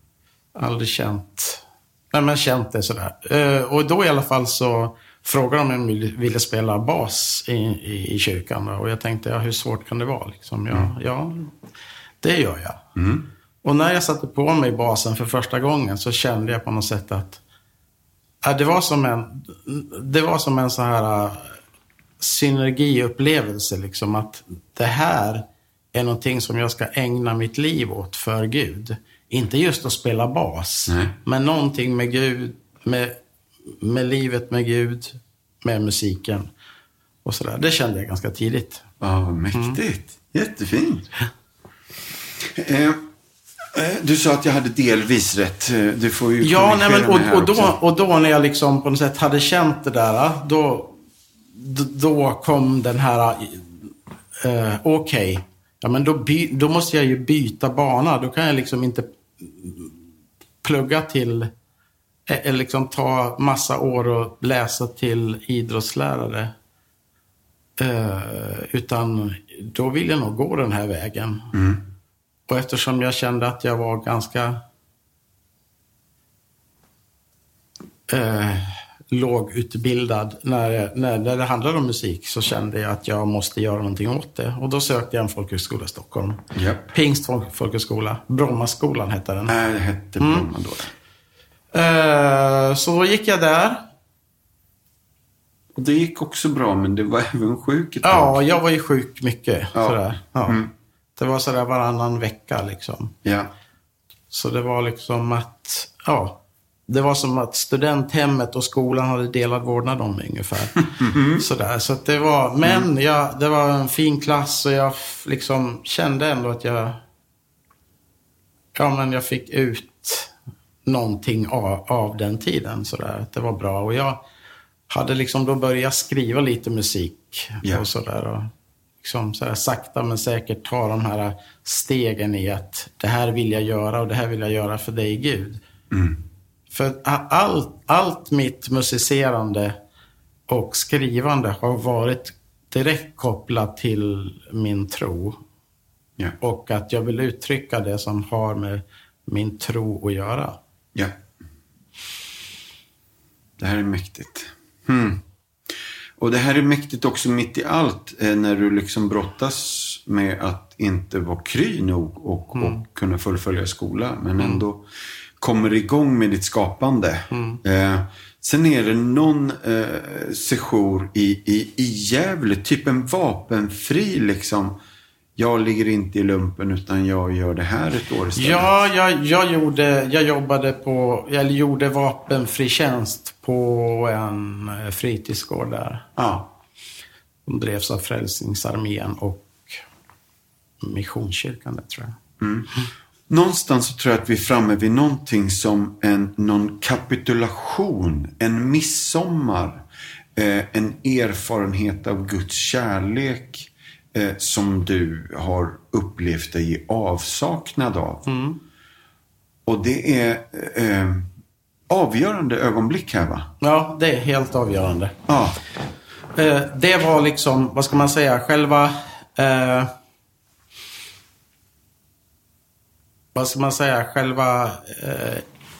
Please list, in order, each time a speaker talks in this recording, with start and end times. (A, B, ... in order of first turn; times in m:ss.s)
0:00.6-0:11.5 A
0:12.2-0:12.8 A
0:13.0-0:13.3 B
0:13.6-0:17.4 A
0:18.4-0:21.6 A
0:22.2-0:33.2 A
0:30.9-0:31.1 B
0:33.7-0:36.5 A
0:37.2-0:38.8 A
0:39.0-0:41.1 B
0:42.4-0:43.0 B
0:43.7-0:47.8 B
0:46.4-0:51.0 A
0:51.5-0:53.9 A
0:54.4-0:59.9 A
1:00.6-1:01.5 A
1:02.3-1:06.5 A
1:07.8-1:11.5 A
1:11.5-1:11.8 B
1:12.5-1:14.6 A
1:18.1-1:26.4 A
1:26.5-1:26.9 B
1:26.9-1:29.5 A
1:29.5-1:30.9 B
1:30.2-1:30.5 A
1:31.7-1:33.8 A
1:35.8-1:38.4 B
1:38.0-1:40.6 A
1:39.7-1:40.7 B
1:41.2-1:43.1 A
1:43.2-1:43.5 B
1:44.3-1:57.0 A
1:51.0-1:51.4 B
1:58.7-2:00.3 A
2:00.8-2:04.2 A
2:04.9-2:08.5 A
2:09.0-2:15.6 A
2:15.9-2:16.2 B
2:16.7-2:19.8 A
2:20.5-2:25.4 A
2:26.4-2:30.6 A
2:33.6-2:35.2 B
2:36.2-2:44.8 B
2:42.5-2:42.8 A
2:44.4-2:44.6 A
2:45.4-2:54.8 B
2:47.3-2:47.6 A
2:55.4-2:58.8 B
2:58.4-3:06.1 A
3:06.2-3:06.5 B
3:07.4-3:09.8 A
3:10.8-3:12.2 A
3:12.4-3:12.7 B
3:13.3-3:19.8 B
3:20.4-3:28.2 B
3:28.2-3:28.6 A
3:29.6-3:31.3 B
3:31.9-3:33.5 B
3:33.6-3:35.2 A
3:35.3-3:35.6 B
3:36.3-3:39.9 A
3:43.3-3:45.4 A